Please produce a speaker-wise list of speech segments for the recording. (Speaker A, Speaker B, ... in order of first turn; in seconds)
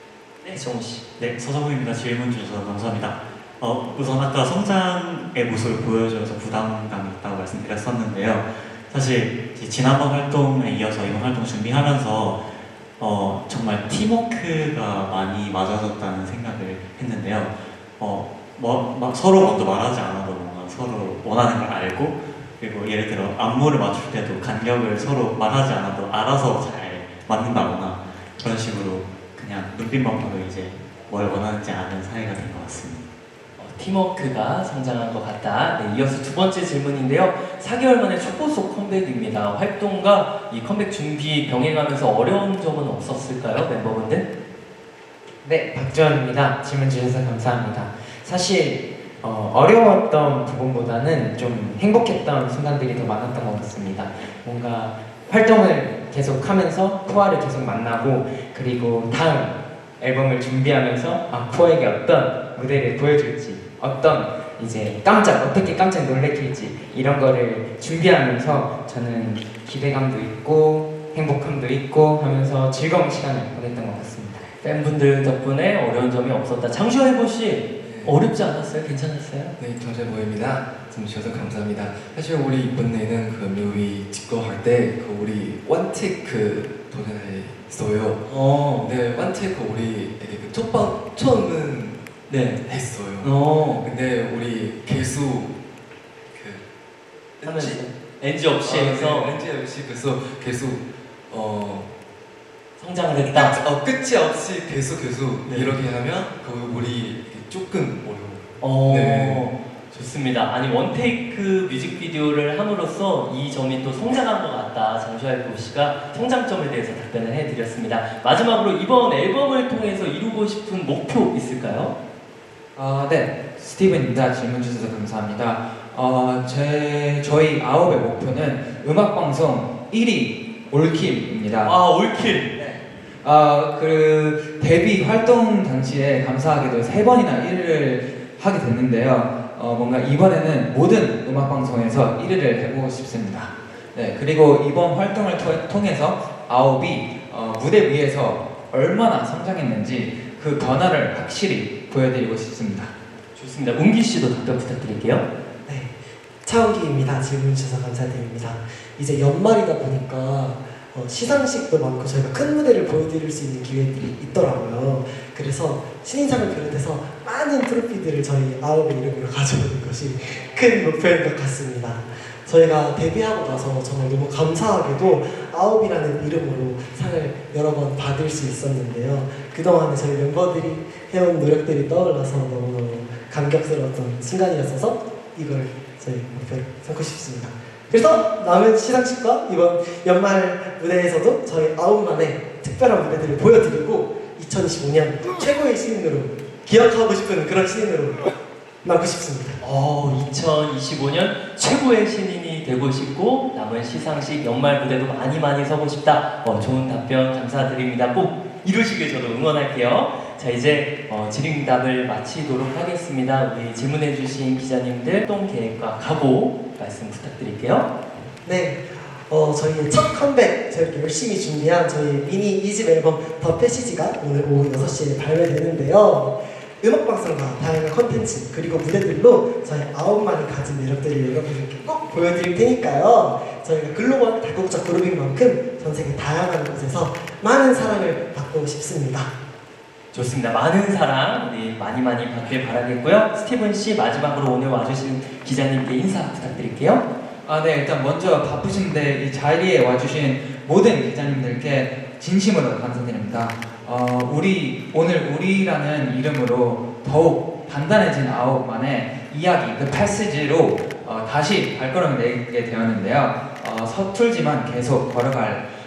Speaker A: 0.4-1.1, 33.6-44.3, 74.6-79.5, 88.2-88.9, 92.3-93.9, 97.4-99.3, 102.8-103.6, 105.4-105.8, 108.6-121.9, 131.6-132.6, 153.3-155.2, 199.6-217.9, 240.1-247.1
Speaker B: 1.2-33.0
Speaker C: 45.4-74.5
Speaker D: 77.8-78.2, 79.6-92.0, 92.6-95.5, 96.3-96.6, 97.4-97.9, 98.6-101.9, 103.3-109.4
Speaker E: 122.7-131.7, 133.2-152.9, 247.4-265.7
Speaker F: 155.7-199.6, 218.4-239.3